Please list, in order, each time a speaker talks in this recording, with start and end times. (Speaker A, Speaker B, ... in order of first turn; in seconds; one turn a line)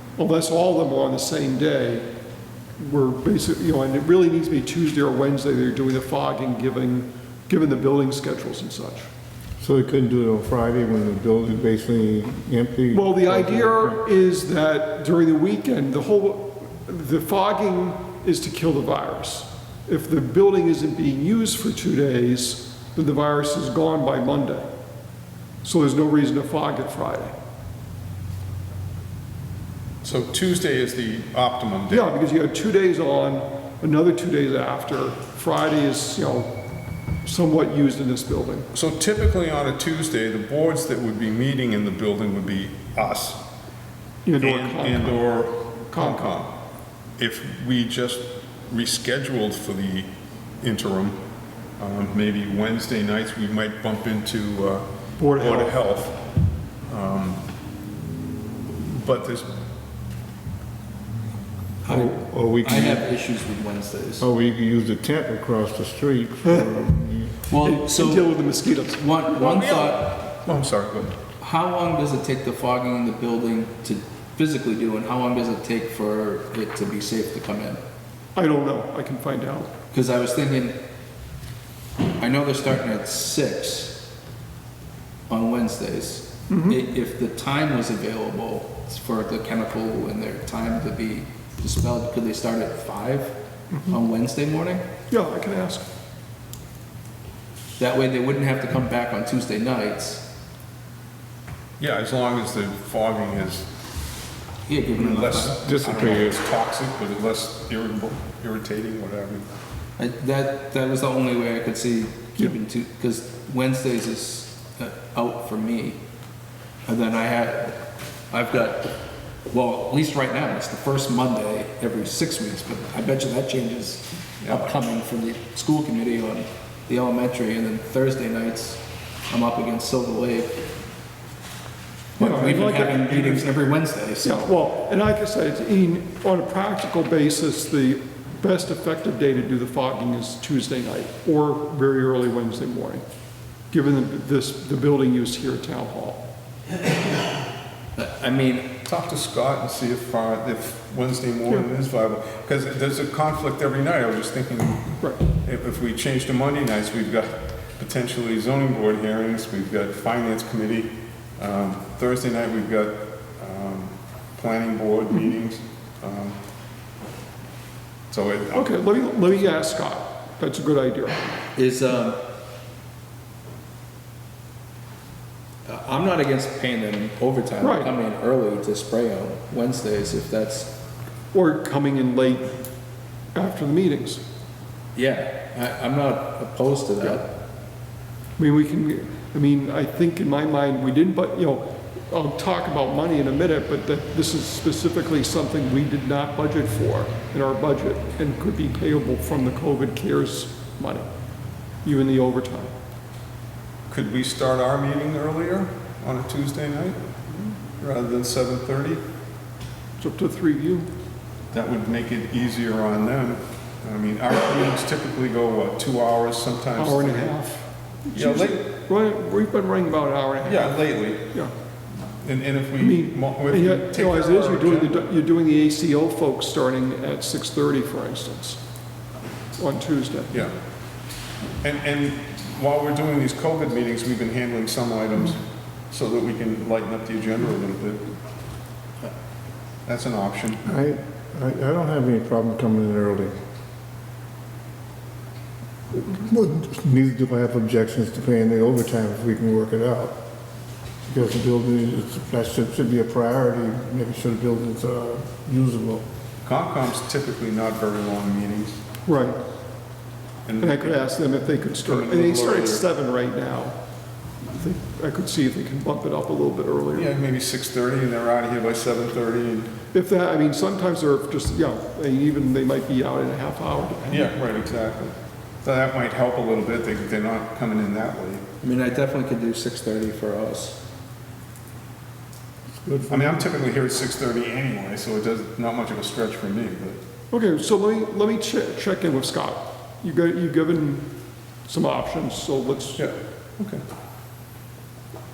Speaker A: 0.2-2.0
Speaker A: 2.8-9.1
Speaker B: 9.6-14.0
Speaker A: 12.9-24.7
Speaker A: 25.6-27.3
Speaker C: 30.0-32.1
Speaker A: 31.9-36.5
Speaker A: 37.2-38.7
Speaker C: 38.7-43.4
Speaker A: 44.2-45.2
Speaker C: 44.4-46.5
Speaker A: 45.9-46.4
Speaker C: 47.2-50.1
Speaker C: 50.6-51.2
Speaker C: 51.8-56.2
Speaker A: 55.2-55.8
Speaker C: 56.9-57.4
Speaker C: 58.8-59.5
Speaker B: 61.8-63.1
Speaker D: 61.8-64.2
Speaker B: 64.2-67.4
Speaker D: 67.5-68.3
Speaker A: 67.5-69.0
Speaker D: 68.9-70.2
Speaker C: 69.3-71.2
Speaker D: 71.4-77.8
Speaker A: 78.3-79.7
Speaker D: 79.9-80.8
Speaker D: 82.2-84.0
Speaker D: 85.3-93.3
Speaker A: 86.5-86.8
Speaker A: 93.7-94.0
Speaker D: 93.9-94.8
Speaker A: 95.1-95.8
Speaker D: 97.8-100.2
Speaker C: 101.8-103.7
Speaker D: 104.7-105.6
Speaker C: 105.0-109.4
Speaker B: 105.6-106.4
Speaker D: 110.0-116.0
Speaker D: 116.8-117.8
Speaker D: 118.3-118.9
Speaker D: 119.5-130.6
Speaker C: 124.4-124.7
Speaker D: 132.2-134.5
Speaker A: 132.2-133.5
Speaker A: 134.2-143.0
Speaker A: 143.7-146.2
Speaker D: 147.9-148.7
Speaker C: 148.8-166.4
Speaker C: 168.1-169.3
Speaker A: 168.5-171.4
Speaker D: 171.5-172.2
Speaker D: 175.7-180.7
Speaker A: 177.6-177.9
Speaker A: 181.3-182.6
Speaker A: 183.3-184.2
Speaker D: 184.9-187.3
Speaker A: 188.4-201.1
Speaker A: 201.8-202.7
Speaker C: 203.9-207.0
Speaker C: 207.8-209.0
Speaker A: 210.0-210.9
Speaker C: 211.5-217.4
Speaker A: 216.8-221.5
Speaker C: 218.1-218.7
Speaker C: 220.4-221.3
Speaker C: 222.2-225.1
Speaker A: 222.8-228.6
Speaker A: 229.6-230.3
Speaker C: 231.6-238.1
Speaker C: 239.8-240.8
Speaker B: 240.6-243.4
Speaker B: 245.9-250.2
Speaker B: 251.1-256.0
Speaker C: 256.4-258.8
Speaker A: 259.1-259.4
Speaker C: 260.4-261.0
Speaker A: 260.6-263.8
Speaker C: 261.8-262.8
Speaker A: 264.5-267.1
Speaker C: 266.9-269.7
Speaker A: 269.9-274.3
Speaker C: 274.1-278.4
Speaker D: 278.6-280.8
Speaker B: 282.7-283.4
Speaker C: 283.1-287.0
Speaker A: 287.3-291.1
Speaker A: 291.6-293.0
Speaker C: 293.0-293.8